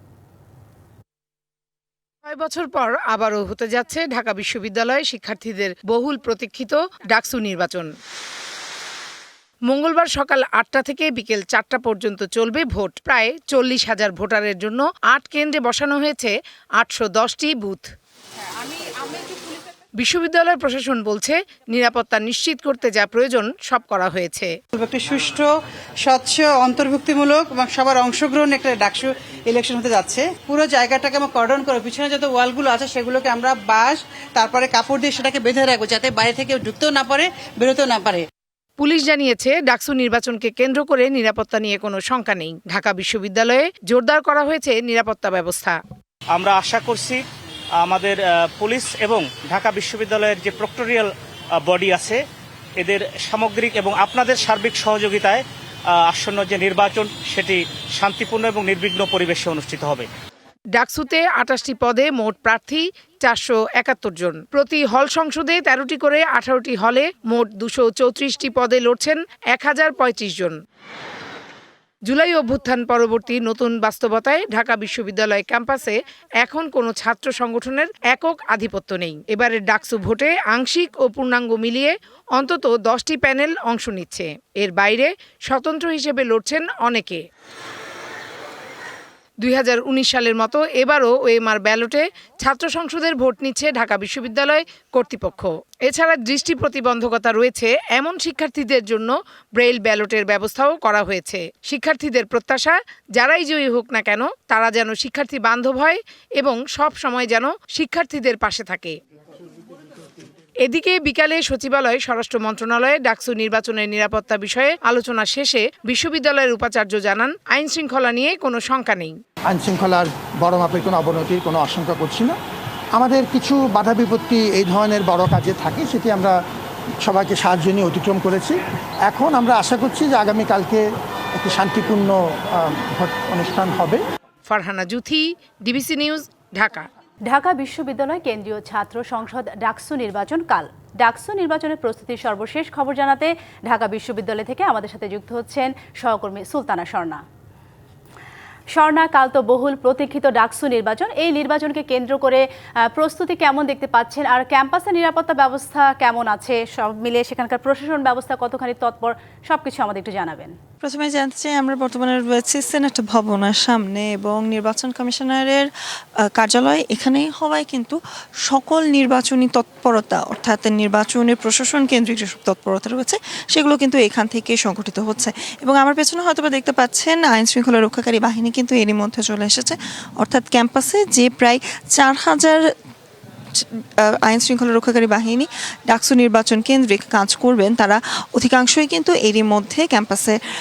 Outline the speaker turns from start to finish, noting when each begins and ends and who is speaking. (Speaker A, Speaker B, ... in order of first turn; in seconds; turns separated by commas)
Speaker A: 2.2-7.9, Speaker A: 9.7-17.9, Speaker A: 20.0-24.5, Speaker B: 24.7-25.5, Speaker B: 26.0-38.2, Speaker A: 38.8-45.8, Speaker C: 46.3-47.2, Speaker C: 47.8-51.1, Speaker C: 51.6-52.2, Speaker C: 52.8-55.4, Speaker C: 56.1-60.1, Speaker A: 60.8-70.6, Speaker A: 72.1-87.2, Speaker A: 89.4-109.0, Speaker A: 110.6-119.1, Speaker D: 119.5-122.4, Speaker D: 123.0-126.3, Speaker D: 127.0-130.8, Speaker D: 131.4-134.0, Speaker A: 134.5-136.9, Speaker E: 137.3-147.2, Speaker E: 148.7-160.5, Speaker F: 160.8-165.7, Speaker F: 166.3-182.6, Speaker F: 183.6-190.3